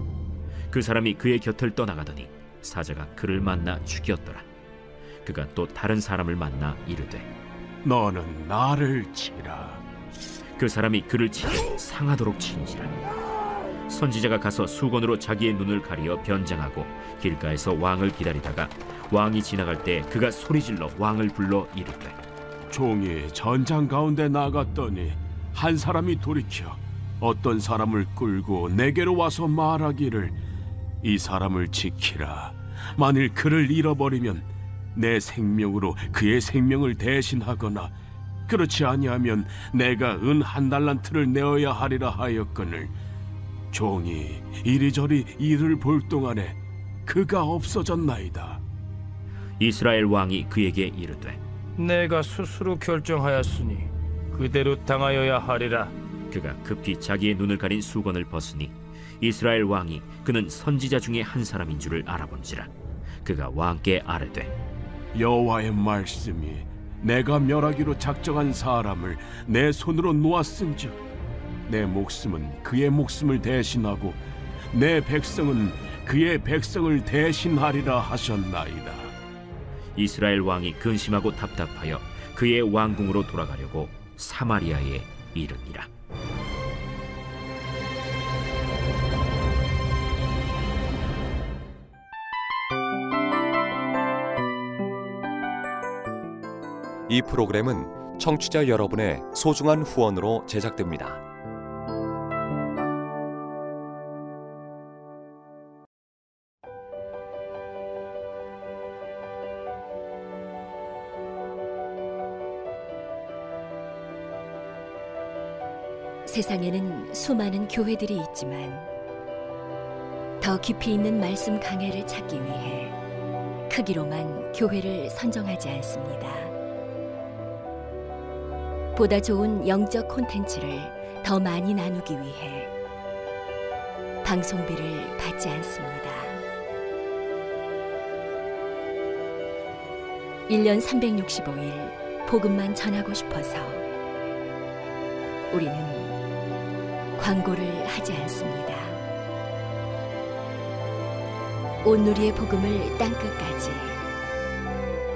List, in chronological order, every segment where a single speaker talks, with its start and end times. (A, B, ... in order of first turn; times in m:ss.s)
0:00.7-0:04.4 A
0:05.2-0:07.3 A
0:07.8-0:09.8 B
0:10.6-0:12.9 A
0:13.9-0:22.2 A
0:22.7-0:30.4 B
0:31.0-0:37.9 B
0:38.5-0:42.9 B
0:43.7-0:48.6 B
0:49.6-0:51.4 A
0:51.8-0:55.9 C
0:56.3-1:02.7 A
1:03.2-1:04.5 A
1:05.1-1:11.0 B
1:11.7-1:14.2 B
1:14.7-1:19.1 B
1:20.0-1:25.9 A
1:37.1-1:41.2 D
1:56.2-1:58.9 E
2:00.4-2:03.0 E
2:03.7-2:06.6 E
2:08.9-2:12.7 E
2:14.2-2:16.4 E
2:20.5-2:23.8 E
2:25.5-2:26.2 E
2:27.2-2:29.0 E
2:31.8-2:34.0 E